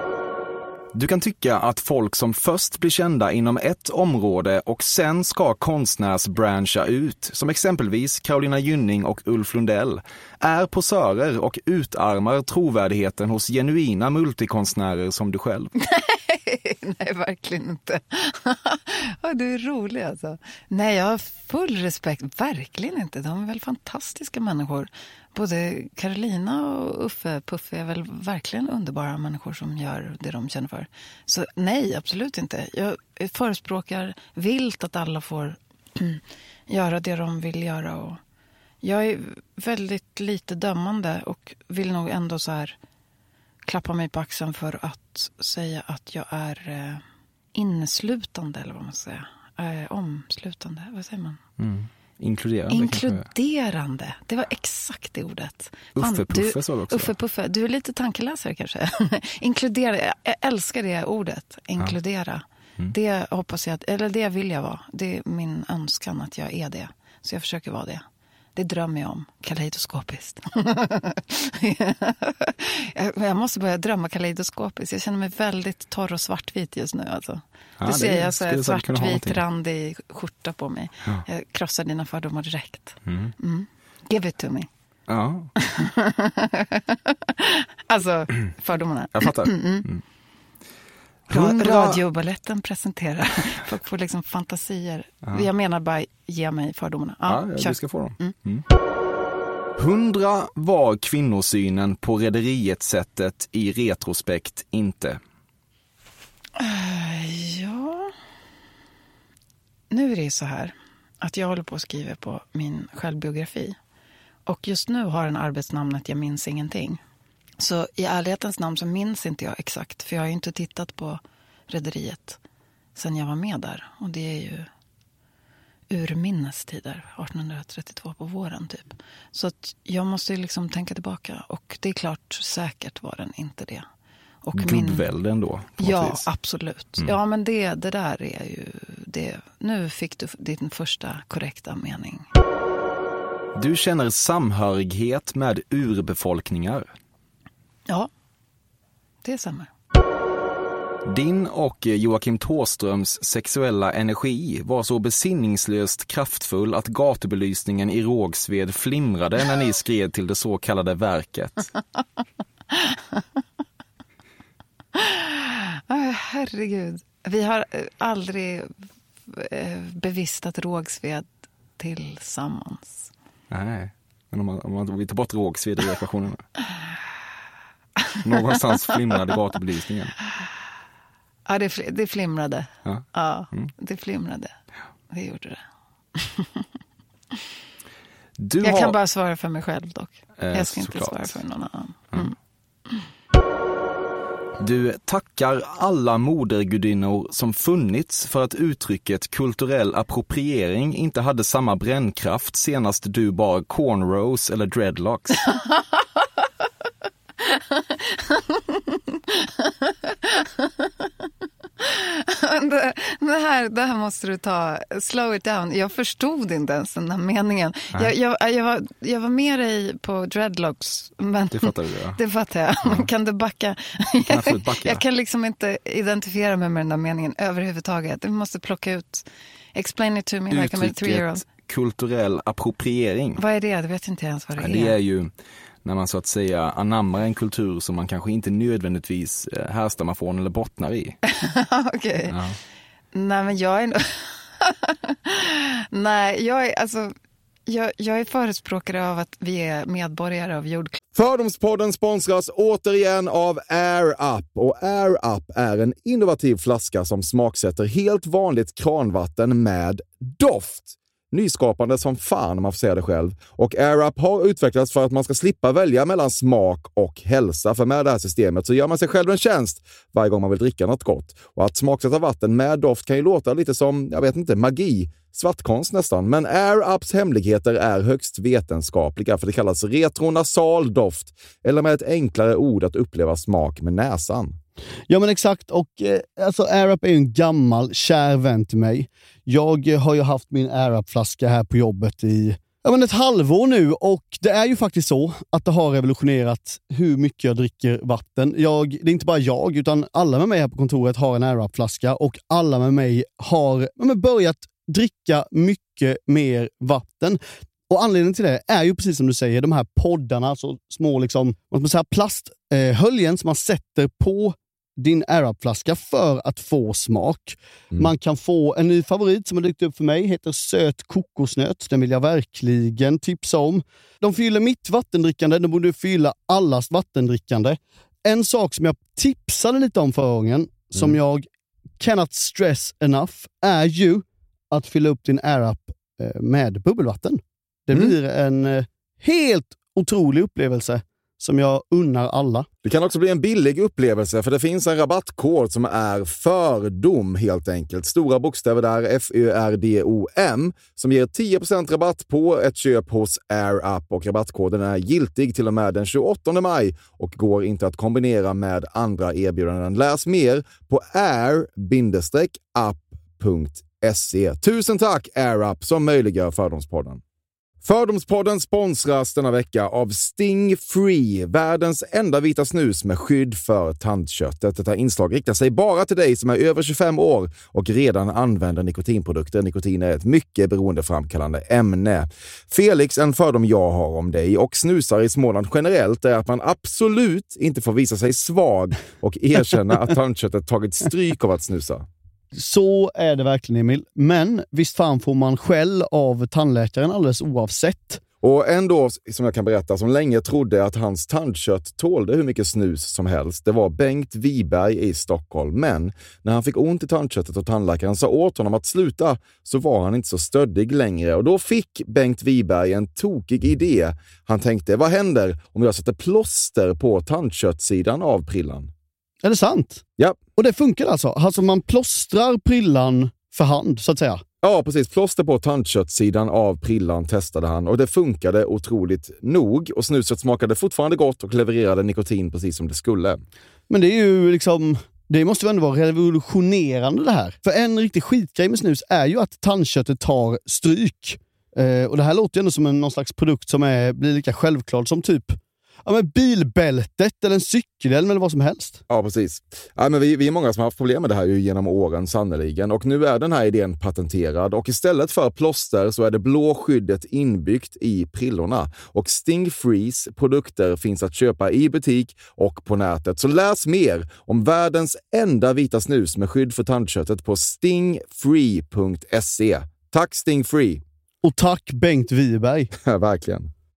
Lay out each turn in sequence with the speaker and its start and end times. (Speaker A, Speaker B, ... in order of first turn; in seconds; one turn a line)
Speaker A: 0.9-15.7
Speaker B: 15.8-38.2
Speaker B: 38.8-42.8
Speaker B: 43.7-47.0
Speaker B: 47.5-51.4
Speaker A: 51.6-53.2
Speaker B: 52.7-68.0
Speaker A: 56.0-57.1
Speaker B: 68.6-84.7
Speaker A: 77.8-79.4
Speaker A: 83.1-83.3
Speaker A: 85.1-85.5
Speaker B: 85.6-89.9
Speaker A: 89.2-90.0
Speaker A: 91.3-92.0
Speaker B: 91.3-98.3
Speaker A: 97.3-98.6
Speaker A: 99.8-105.2
Speaker B: 106.6-108.1
Speaker B: 109.9-113.8
Speaker B: 114.5-117.0
Speaker B: 117.6-122.4
Speaker B: 123.0-124.7
Speaker B: 125.9-133.9
Speaker B: 134.4-135.1
Speaker A: 134.6-136.2
Speaker B: 135.8-142.3
Speaker A: 143.6-146.9
Speaker B: 149.2-149.7
Speaker A: 151.1-161.7
Speaker B: 162.7-163.2
Speaker B: 164.9-168.7
Speaker B: 169.3-171.3
Speaker B: 171.8-173.1
Speaker A: 173.5-176.4
Speaker B: 178.1-178.5
Speaker A: 178.2-180.2
Speaker B: 181.5-184.6
Speaker A: 182.8-183.7
Speaker B: 185.1-185.6
Speaker B: 186.2-186.6
Speaker A: 188.4-189.0
Speaker B: 188.6-192.3
Speaker A: 190.4-191.4
Speaker A: 194.6-205.4
Speaker B: 205.5-206.0
Speaker B: 207.4-211.1
Speaker B: 211.8-231.4
Speaker A: 221.5-222.2
Speaker A: 224.2-225.0
Speaker A: 230.5-233.4
Speaker B: 233.4-235.0
Speaker A: 234.6-235.3
Speaker A: 235.8-241.2
Speaker B: 241.3-242.4
Speaker A: 242.3-242.6
Speaker B: 243.1-247.1
Speaker B: 247.7-251.0
Speaker C: 251.2-284.6
Speaker D: 285.1-331.5
Speaker D: 332.0-342.7
Speaker C: 342.8-367.2
Speaker C: 367.8-392.1
Speaker D: 392.5-398.2
Speaker C: 398.4-418.9
Speaker D: 419.4-420.0
Speaker D: 420.6-424.4
Speaker C: 424.6-433.4
Speaker D: 433.9-449.0
Speaker C: 449.1-471.0
Speaker D: 471.4-472.9
Speaker C: 473.0-473.7